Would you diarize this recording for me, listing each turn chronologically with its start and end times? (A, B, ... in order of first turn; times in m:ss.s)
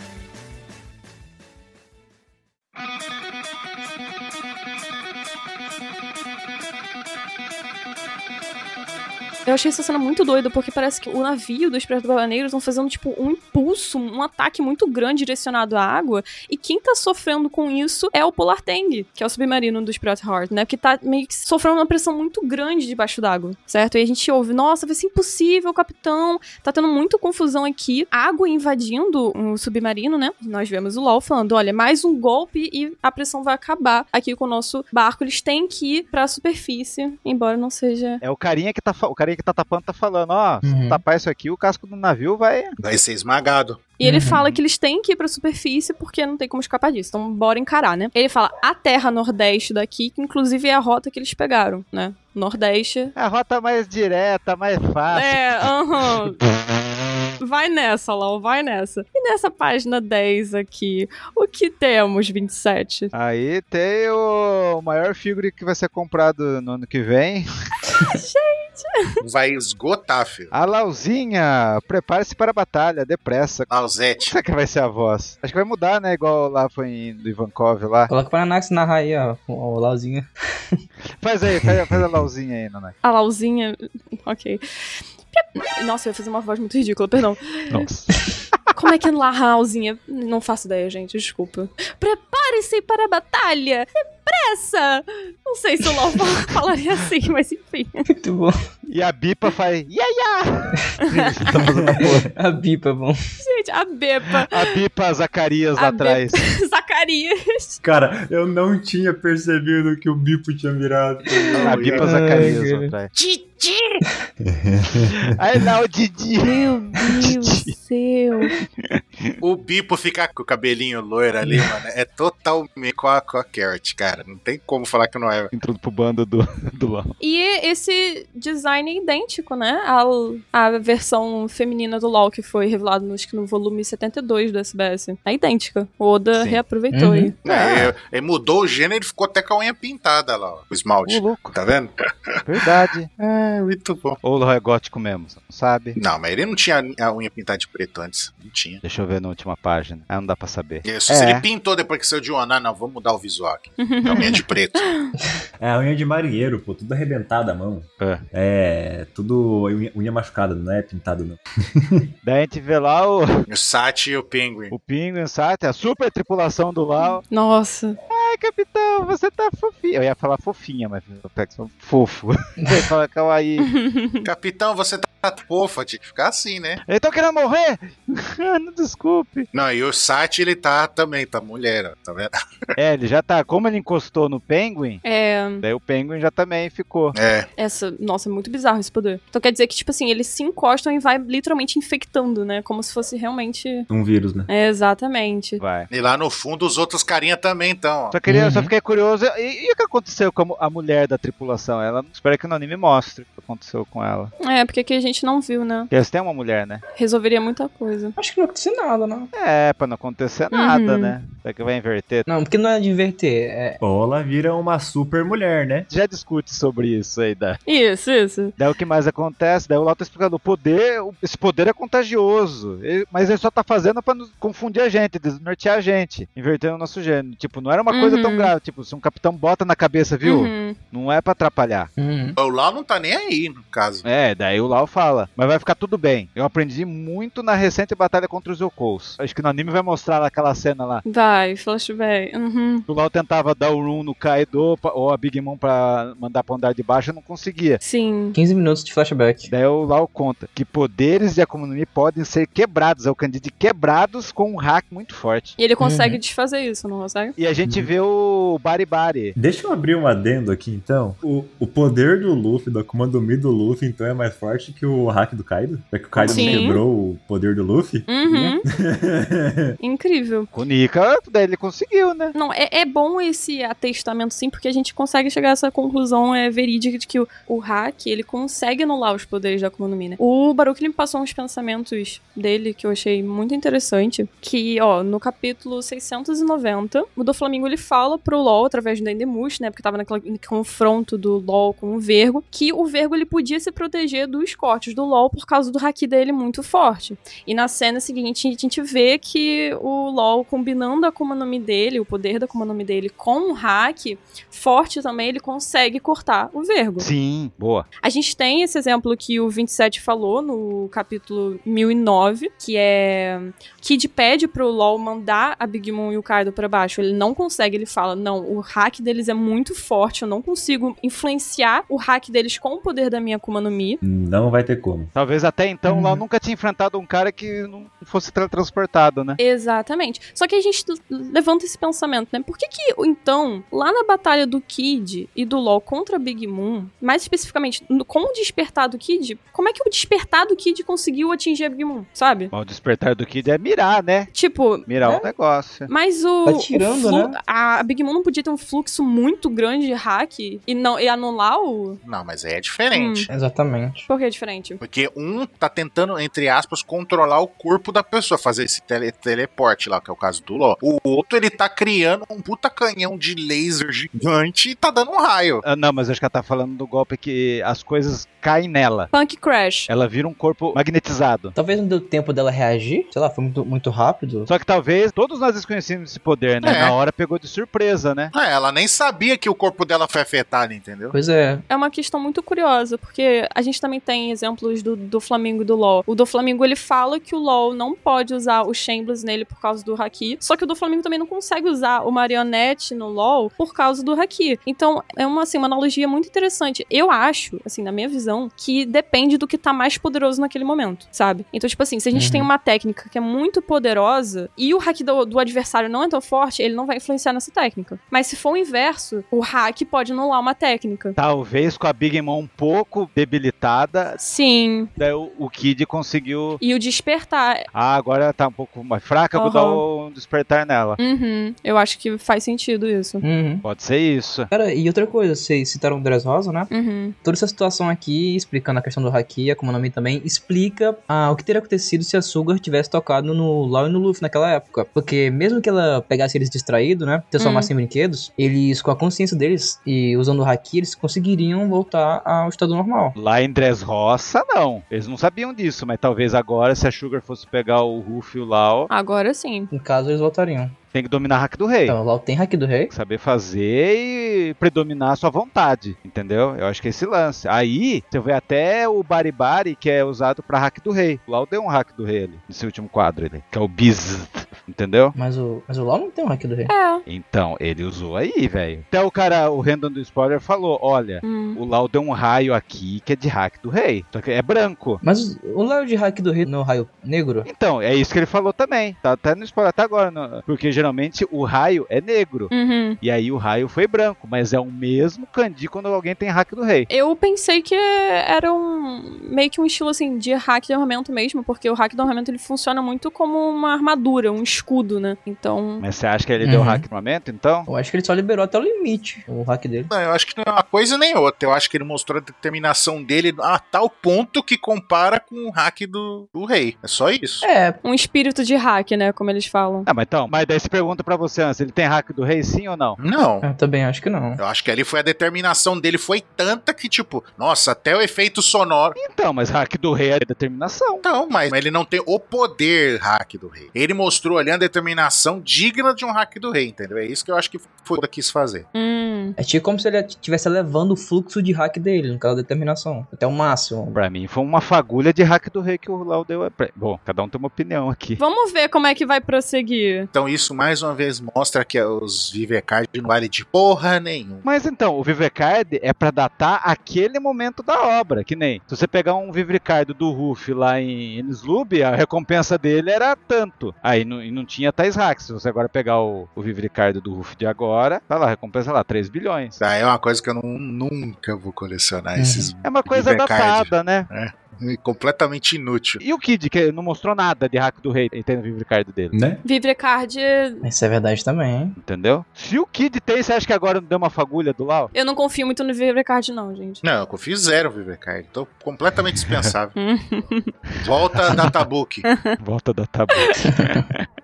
0:09.5-0:38.2 A
0:38.2-0:42.8 B
0:40.6-0:41.0 C
0:42.8-0:43.9 D
0:44.0-0:53.1 A
0:44.0-0:44.4 C
0:53.2-0:55.6 B
0:55.1-0:56.4 A
0:57.4-1:03.1 A
1:03.1-1:07.5 B
1:08.0-1:09.2 A
1:09.2-1:10.5 D
1:10.5-1:13.7 B
1:13.7-1:14.3 D
1:14.2-1:18.1 B
1:18.1-1:20.8 C
1:21.2-1:23.0 B
1:23.0-1:24.6 A
1:25.3-1:27.9 A
1:27.7-1:28.1 B
1:28.7-1:38.1 A
1:38.1-1:38.6 C
1:38.9-1:42.3 B
1:41.8-1:42.1 E
1:41.9-1:43.2 C
1:43.4-1:44.8 A
1:44.5-1:46.4 B
1:45.8-1:47.8 A
1:47.8-1:52.0 E
1:51.4-1:52.9 C
1:51.5-1:52.5 D
1:51.6-1:53.1 B
1:53.1-1:54.0 D
1:54.4-1:55.3 E
1:55.3-1:57.8 B
1:58.6-1:59.4 B
1:59.4-2:05.5 D
2:01.4-2:01.7 C
2:05.5-2:07.1 B
2:07.2-2:17.9 A
2:16.4-2:16.6 B
2:16.9-2:17.3 C
2:17.4-2:22.4 D
2:21.0-2:21.6 B
2:22.4-2:23.1 B
2:23.2-2:24.2 D
2:24.2-2:26.0 B
2:26.0-2:28.8 D
2:28.8-2:31.5 B
2:30.8-2:34.9 D
2:33.8-2:35.1 A
2:35.6-2:42.1 E
2:42.2-2:43.4 B
2:43.5-2:44.7 D
2:44.7-2:47.2 B
2:47.0-2:48.0 A
2:48.1-2:53.7 B
2:52.6-2:52.9 C
2:53.7-2:54.3 A
2:54.2-2:56.8 D
2:56.9-2:59.5 B
2:59.5-3:02.3 D
3:02.8-3:05.0 B
3:05.0-3:05.6 A
3:05.6-3:07.2 B
3:07.2-3:07.5 D
3:07.6-3:13.9 A
3:13.9-3:14.5 E
3:14.5-3:15.6 A
3:15.6-3:15.9 B
3:15.9-3:18.2 D
3:18.1-3:24.3 B
3:18.3-3:18.7 C
3:24.4-3:25.9 A
3:25.9-3:26.8 B
3:27.0-3:28.2 A
3:28.2-3:29.3 C
3:29.3-3:32.3 B
3:30.5-3:31.1 A
3:32.3-3:33.8 C
3:33.8-3:35.9 E
3:35.9-3:37.6 B
3:37.7-3:38.6 A
3:38.6-3:51.9 B
3:47.9-3:48.5 A
3:50.2-3:50.8 A
3:52.0-3:52.4 C
3:52.4-3:54.0 D
3:54.0-4:01.0 B
4:01.0-4:02.9 A
4:02.9-4:07.8 B
4:07.8-4:08.4 A
4:08.4-4:09.5 C
4:09.5-4:15.6 B
4:15.6-4:17.4 A
4:15.8-4:16.2 C
4:17.4-4:19.4 B
4:19.4-4:29.8 E
4:26.1-4:26.7 B
4:26.3-4:26.8 A
4:28.1-4:28.6 A
4:29.8-4:30.5 A
4:30.5-4:32.4 B
4:32.4-5:07.1 A
5:07.0-5:07.9 B
5:08.0-5:24.0 A
5:24.0-5:25.1 E
5:25.2-5:29.4 B
5:25.9-5:26.2 C
5:29.4-5:42.5 A
5:42.5-5:44.3 B
5:44.3-5:44.9 A
5:44.9-5:45.9 B
5:45.0-5:45.3 C
5:45.9-5:52.0 A
5:46.4-5:47.4 C
5:52.0-5:53.3 D
5:52.9-5:53.3 A
5:53.3-5:54.1 C
5:54.1-5:54.8 A
5:54.8-6:05.6 D
6:05.6-6:09.1 B
6:09.1-6:09.9 A
6:09.9-6:11.6 B
6:11.6-6:14.5 C
6:14.5-6:18.3 B
6:16.6-6:17.0 D
6:18.3-6:21.2 D
6:21.1-6:21.6 C
6:21.7-6:51.2 A
6:42.1-6:42.5 C
6:51.2-6:54.2 B
6:54.2-6:54.9 A
6:55.0-6:56.6 B
6:56.6-6:57.7 A
6:57.7-7:01.0 B
6:59.4-6:59.8 A
7:01.0-7:03.2 A
7:03.2-7:03.6 C
7:03.6-7:04.5 B
7:04.5-7:06.7 C
7:06.7-7:07.2 A
7:07.2-7:23.2 C
7:17.4-7:17.7 A
7:23.2-7:28.9 B
7:28.9-7:29.7 A
7:29.7-7:30.8 C
7:30.9-7:32.0 B
7:31.9-7:32.9 C
7:32.9-7:45.2 B
7:45.2-7:46.7 C
7:46.7-7:47.0 A
7:47.1-7:55.0 B
7:51.2-7:51.6 A
7:55.0-7:57.5 C
7:57.5-8:06.9 B
8:02.5-8:03.0 A
8:06.9-8:15.8 A
8:15.8-8:17.7 B
8:16.4-8:16.9 C
8:17.7-8:19.9 C
8:19.9-8:27.5 D
8:27.4-8:27.8 C
8:27.8-8:29.9 A
8:29.9-8:33.0 B
8:33.0-8:33.4 D
8:33.4-8:34.4 C
8:34.4-8:39.0 D
8:39.0-8:41.0 B
8:41.0-8:48.7 D
8:48.8-8:49.4 A
8:49.4-8:54.0 C
8:53.9-8:58.2 B
8:58.2-9:00.1 A
9:00.1-9:04.4 D
9:04.4-9:19.6 B
9:19.6-9:26.0 D
9:22.2-9:22.5 C
9:22.6-9:24.1 B
9:26.0-9:29.2 B
9:29.1-9:29.4 E
9:29.4-9:30.6 A
9:30.6-9:31.8 C
9:31.8-9:34.9 B
9:34.9-9:36.8 A
9:36.8-9:39.7 D
9:39.8-9:40.5 A
9:40.8-9:42.1 D
9:42.1-9:42.4 A
9:42.4-9:44.1 B
9:43.2-9:43.5 A
9:43.6-9:43.8 C